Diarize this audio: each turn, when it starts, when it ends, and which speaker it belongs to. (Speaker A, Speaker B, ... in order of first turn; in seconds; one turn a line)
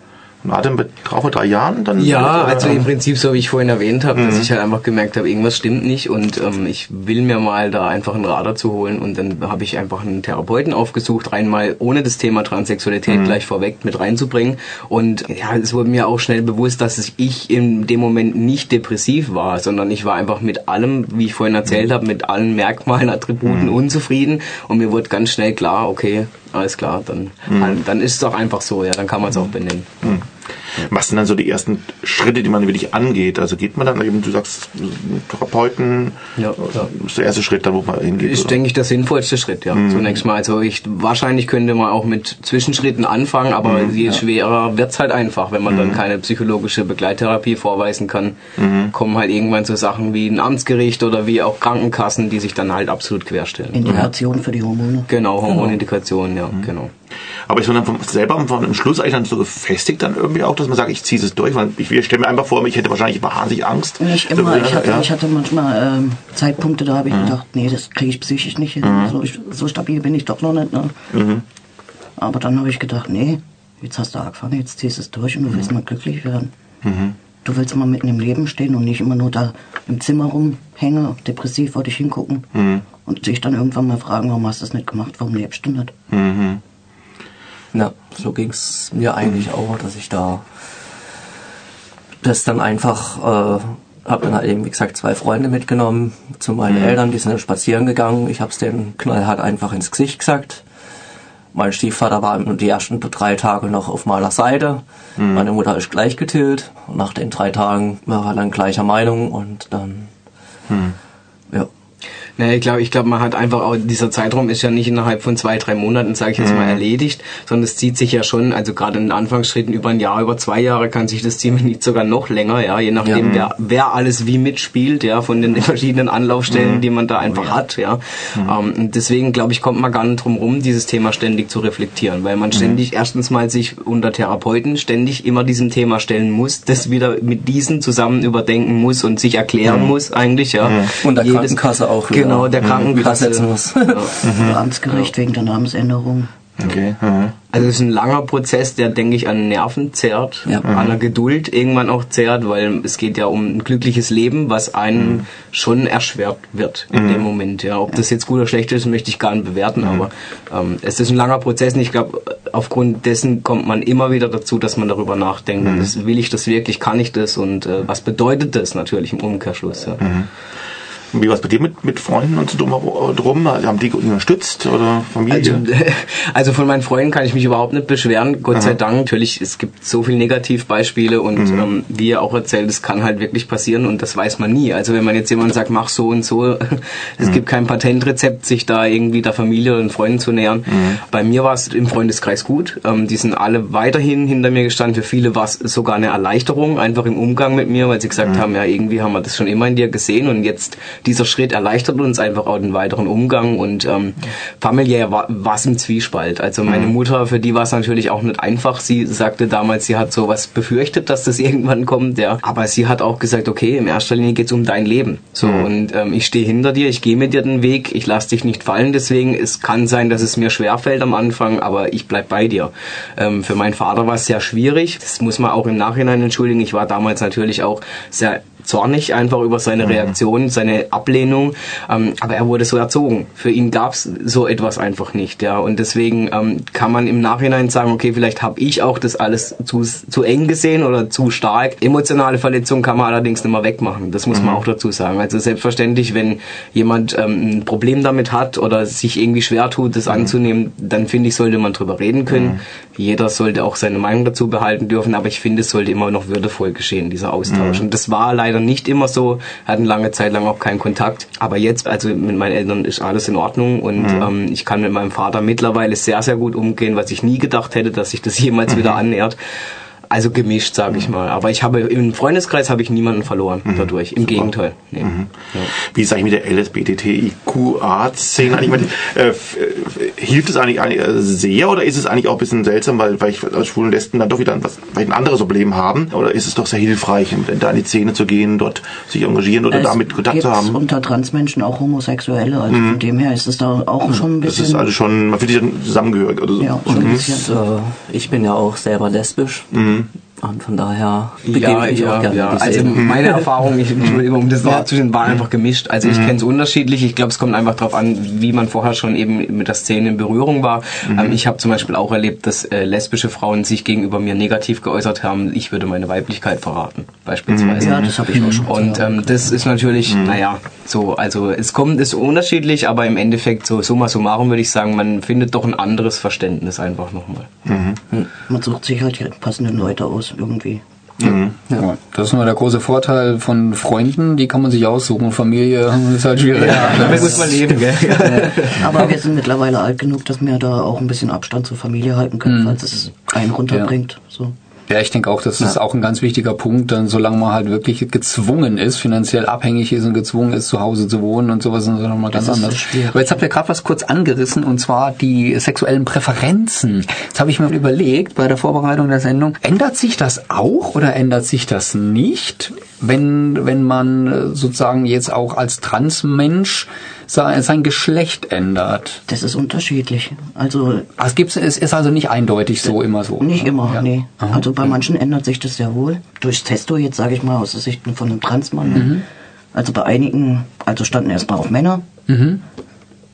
Speaker A: 0.4-2.9
Speaker B: 2.0-30.2
Speaker A: 4.2-4.5
Speaker A: 13.1-13.3
Speaker A: 23.5-23.7
Speaker A: 27.5-27.8
Speaker A: 30.8-38.5
Speaker B: 36.4-36.9
Speaker B: 38.2-53.9
Speaker A: 39.7-40.1
Speaker A: 43.6-43.9
Speaker A: 45.7-46.0
Speaker A: 48.6-48.9
Speaker C: 53.7-55.1
Speaker B: 55.1-56.9
Speaker A: 57.5-65.1
Speaker C: 64.0-70.9
Speaker A: 68.8-69.1
Speaker A: 71.1-71.4
Speaker C: 72.2-76.5
Speaker A: 76.8-77.2
Speaker C: 77.4-85.9
Speaker A: 82.5-82.8
Speaker A: 86.1-86.6
Speaker D: 87.7-90.4
Speaker D: 92.2-100.6
Speaker A: 96.7-97.0
Speaker D: 101.5-110.1
Speaker A: 105.2-105.5
Speaker A: 110.7-110.9
Speaker B: 112.4-144.2
Speaker A: 116.4-116.8
Speaker A: 123.2-123.5
Speaker A: 126.5-126.8
Speaker A: 140.6-140.9
Speaker D: 141.0-144.2
Speaker A: 144.2-144.6
Speaker C: 144.3-146.3
Speaker A: 146.6-147.3
Speaker B: 147.5-170.0
Speaker A: 150.7-151.0
Speaker A: 156.9-157.2
Speaker A: 165.6-165.9
Speaker A: 170.0-170.3
Speaker A: 171.1-175.6
Speaker B: 175.3-269.4
Speaker A: 181.4-181.7
Speaker A: 190.7-191.0
Speaker A: 244.3-244.6
Speaker A: 252.3-252.6
Speaker A: 257.5-257.8
Speaker A: 264.0-264.3
Speaker B: 270.1-275.7
Speaker A: 273.7-290.8
Speaker C: 289.7-294.9
Speaker A: 292.7-293.0
Speaker A: 294.1-297.3
Speaker C: 296.6-297.5
Speaker D: 296.9-299.7
Speaker A: 299.7-300.1
Speaker D: 300.4-303.1
Speaker B: 301.4-327.5
Speaker A: 311.1-311.4
Speaker A: 317.5-318.1
Speaker C: 317.8-319.1
Speaker D: 317.9-319.0
Speaker A: 320.1-320.4
Speaker A: 327.6-328.0
Speaker C: 328.5-330.8
Speaker A: 331.2-331.5
Speaker E: 331.2-339.1
Speaker B: 336.5-338.9
Speaker C: 338.8-344.5
Speaker E: 342.5-342.8
Speaker E: 344.9-369.2
Speaker C: 352.3-353.4
Speaker C: 369.3-371.1
Speaker E: 371.2-374.6
Speaker C: 373.4-382.0
Speaker E: 378.9-379.2
Speaker E: 382.3-382.6